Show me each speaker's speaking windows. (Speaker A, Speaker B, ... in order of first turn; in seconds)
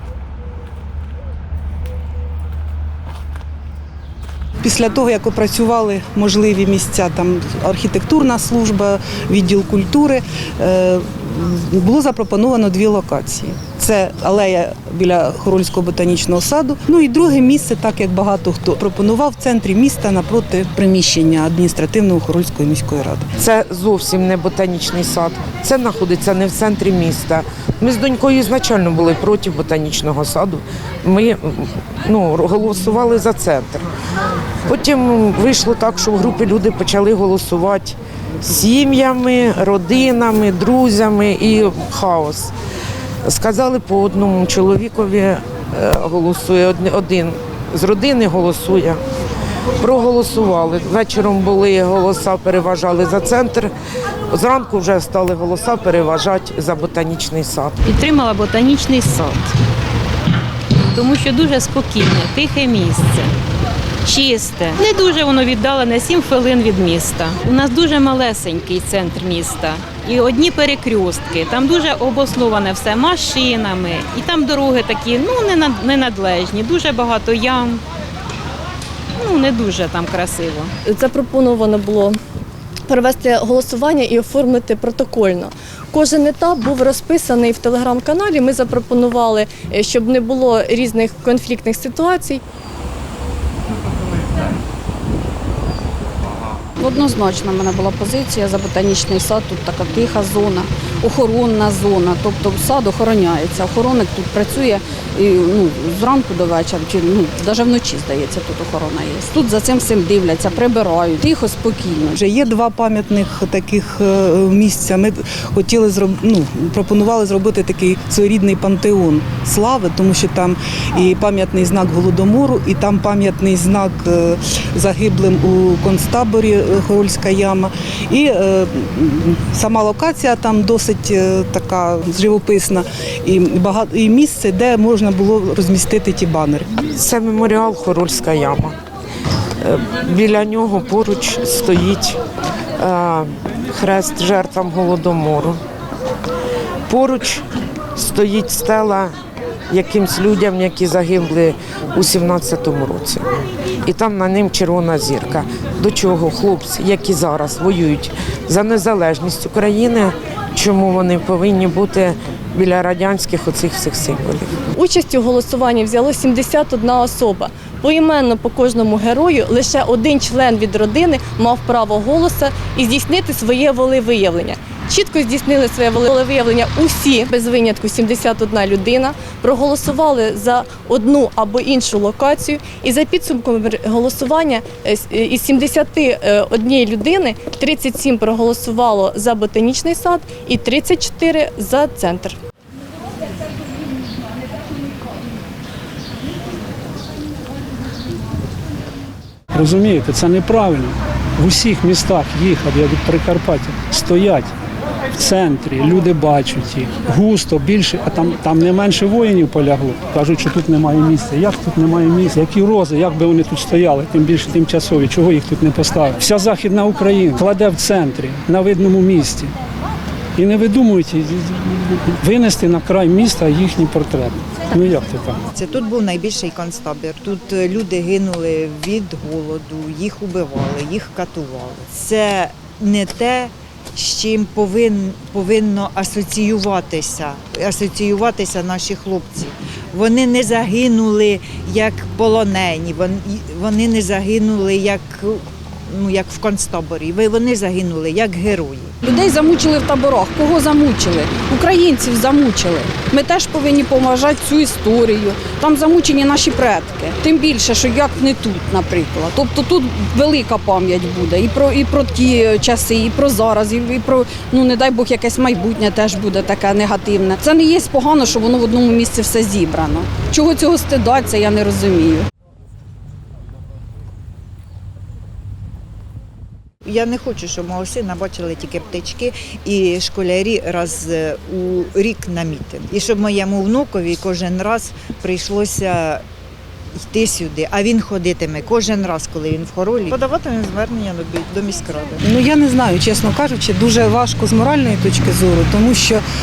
Speaker A: 4.6-23.3, 112.1-136.8, 292.2-296.2
Speaker B: 23.4-33.8, 34.7-42.5, 43.2-49.0, 49.8-53.7, 54.3-57.9, 136.9-138.8, 139.6-142.2, 142.8-145.6, 146.9-149.1, 149.7-153.3, 153.8-164.5
Speaker C: 57.9-59.5, 60.9-63.3, 64.0-77.8, 79.2-80.7
Speaker D: 80.8-82.2, 82.9-92.4, 164.7-192.4
Speaker E: 96.8-112.2, 249.0-272.3
Speaker F: 199.5-204.5, 205.2-219.5, 220.4-225.4
Speaker G: 225.5-248.9, 276.8-286.2, 287.0-292.2